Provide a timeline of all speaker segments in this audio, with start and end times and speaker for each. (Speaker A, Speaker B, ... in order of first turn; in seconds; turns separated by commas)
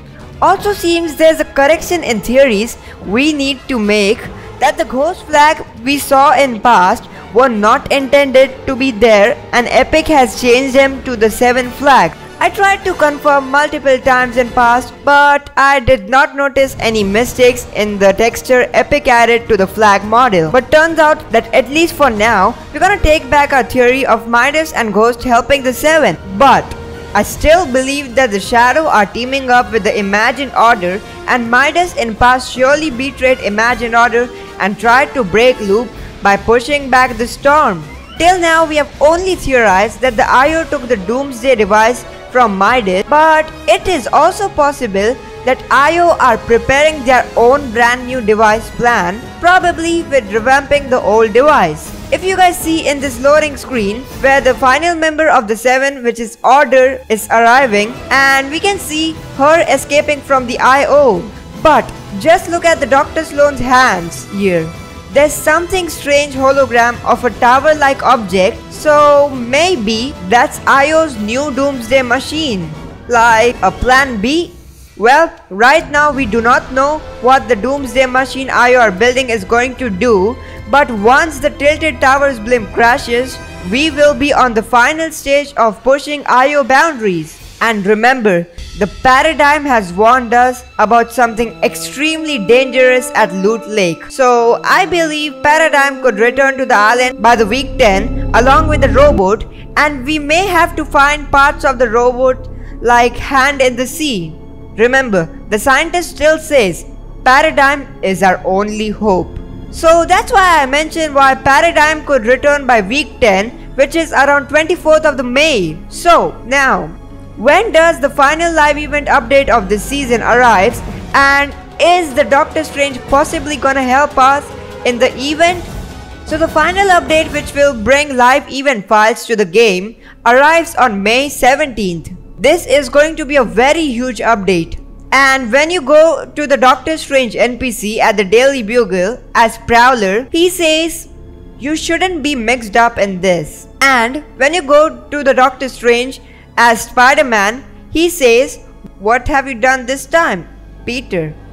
Speaker A: 0.4-125.7, Speaker A: 126.2-151.4